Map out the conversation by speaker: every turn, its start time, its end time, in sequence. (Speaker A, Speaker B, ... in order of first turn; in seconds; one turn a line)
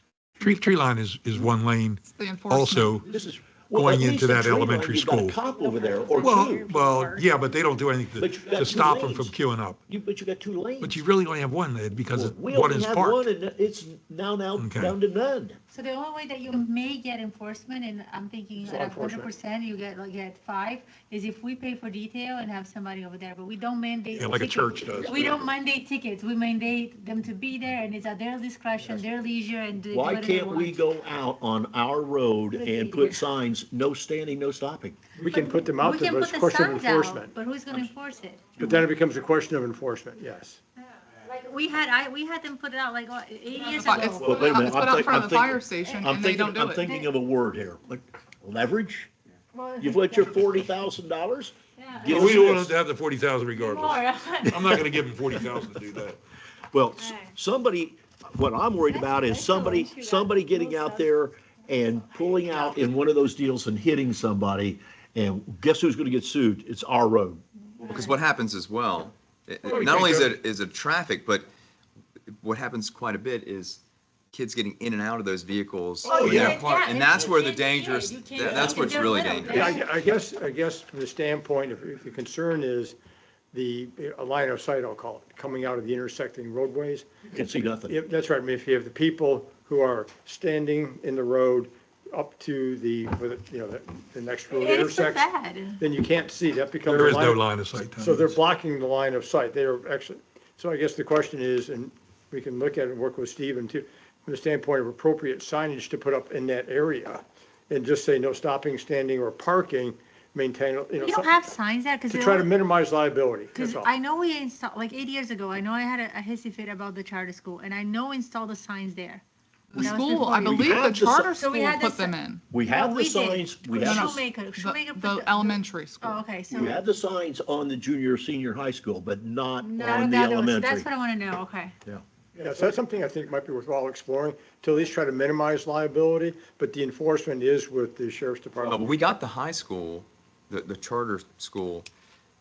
Speaker A: 0.4-3.1
Speaker B: 2.0-2.9
Speaker C: 3.1-6.7
Speaker A: 3.7-5.4
Speaker D: 5.5-7.5
Speaker A: 6.2-9.8
Speaker C: 8.2-9.3
Speaker C: 9.9-11.0
Speaker A: 10.8-13.3
Speaker C: 12.1-15.6
Speaker A: 14.6-14.9
Speaker D: 15.7-30.7
Speaker E: 18.6-19.3
Speaker A: 24.1-25.5
Speaker C: 29.9-35.0
Speaker D: 32.5-33.2
Speaker E: 35.2-37.3
Speaker D: 35.2-38.4
Speaker C: 38.6-38.8
Speaker E: 38.6-40.6
Speaker D: 41.2-44.6
Speaker B: 43.6-46.9
Speaker C: 44.2-49.1
Speaker D: 49.5-50.5
Speaker C: 49.8-52.7
Speaker D: 51.8-52.5
Speaker A: 52.1-56.2
Speaker D: 53.5-54.8
Speaker C: 54.5-54.8
Speaker C: 56.7-67.4
Speaker D: 57.0-57.3
Speaker D: 58.9-61.1
Speaker D: 61.8-63.1
Speaker D: 67.8-68.2
Speaker F: 67.9-71.5
Speaker A: 69.7-70.3
Speaker F: 72.3-79.7
Speaker D: 76.0-79.8
Speaker E: 76.2-76.5
Speaker E: 79.5-83.0
Speaker E: 83.5-87.0
Speaker C: 87.3-88.0
Speaker E: 87.9-95.2
Speaker D: 94.5-95.8
Speaker E: 95.8-97.4
Speaker A: 96.8-98.3
Speaker E: 98.0-111.3
Speaker D: 111.0-112.5
Speaker E: 112.1-113.9
Speaker D: 113.5-119.2
Speaker B: 119.7-122.4
Speaker D: 119.8-122.2
Speaker C: 120.5-121.3
Speaker C: 122.5-124.2
Speaker D: 122.7-126.8
Speaker B: 123.8-126.2
Speaker C: 126.5-130.9
Speaker D: 129.6-131.7
Speaker E: 132.4-138.9
Speaker F: 138.6-141.9